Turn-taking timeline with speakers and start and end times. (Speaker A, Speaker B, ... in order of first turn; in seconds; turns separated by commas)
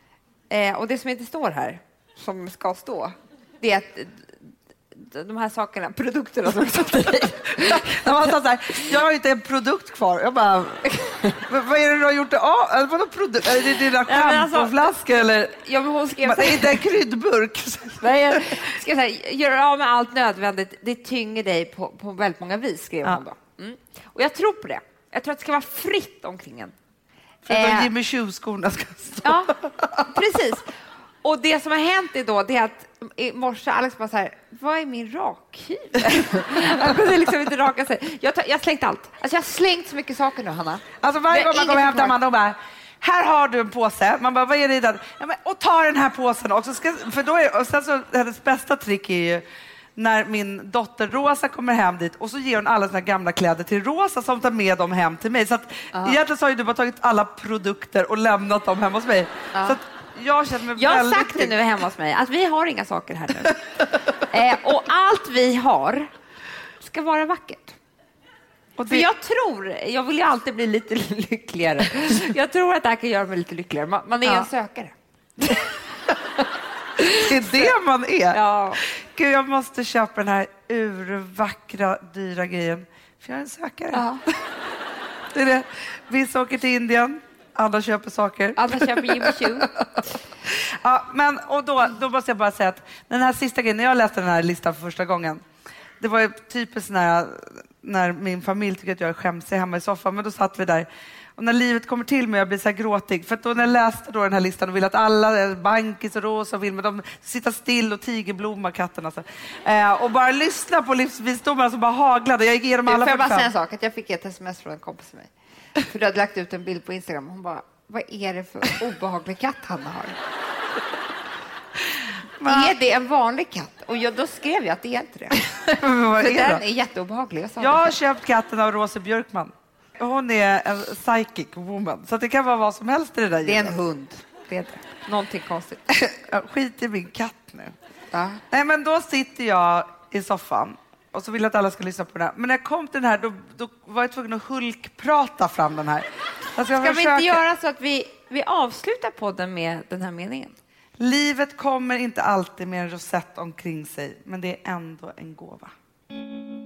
Speaker A: 0.5-8.1, Speaker B: 7.6-15.6, Speaker A: 14.0-14.9, Speaker A: 15.5-16.8, Speaker B: 16.2-18.7, Speaker A: 18.0-26.7, Speaker B: 27.5-30.1, Speaker A: 27.5-27.9, Speaker A: 29.2-29.5, Speaker A: 30.1-30.7, Speaker A: 31.2-42.1, Speaker B: 41.0-49.4, Speaker B: 50.0-61.5, Speaker A: 55.9-56.2, Speaker A: 59.5-59.8, Speaker A: 60.7-66.1, Speaker A: 66.8-67.8, Speaker B: 68.8-69.1, Speaker A: 68.9-75.6, Speaker A: 77.0-77.7, Speaker B: 77.0-78.4, Speaker A: 78.3-78.8, Speaker B: 78.9-84.1, Speaker A: 83.9-84.2, Speaker B: 85.3-89.9, Speaker A: 88.5-89.7, Speaker B: 90.5-95.4, Speaker B: 96.0-113.5, Speaker A: 112.8-120.2, Speaker B: 121.9-122.7, Speaker A: 122.4-125.4, Speaker B: 125.4-126.6, Speaker A: 126.2-128.0, Speaker B: 127.6-133.8, Speaker A: 133.4-136.0, Speaker B: 136.1-137.7, Speaker A: 138.1-138.4, Speaker B: 138.5-147.4, Speaker A: 146.8-150.6, Speaker B: 151.0-155.7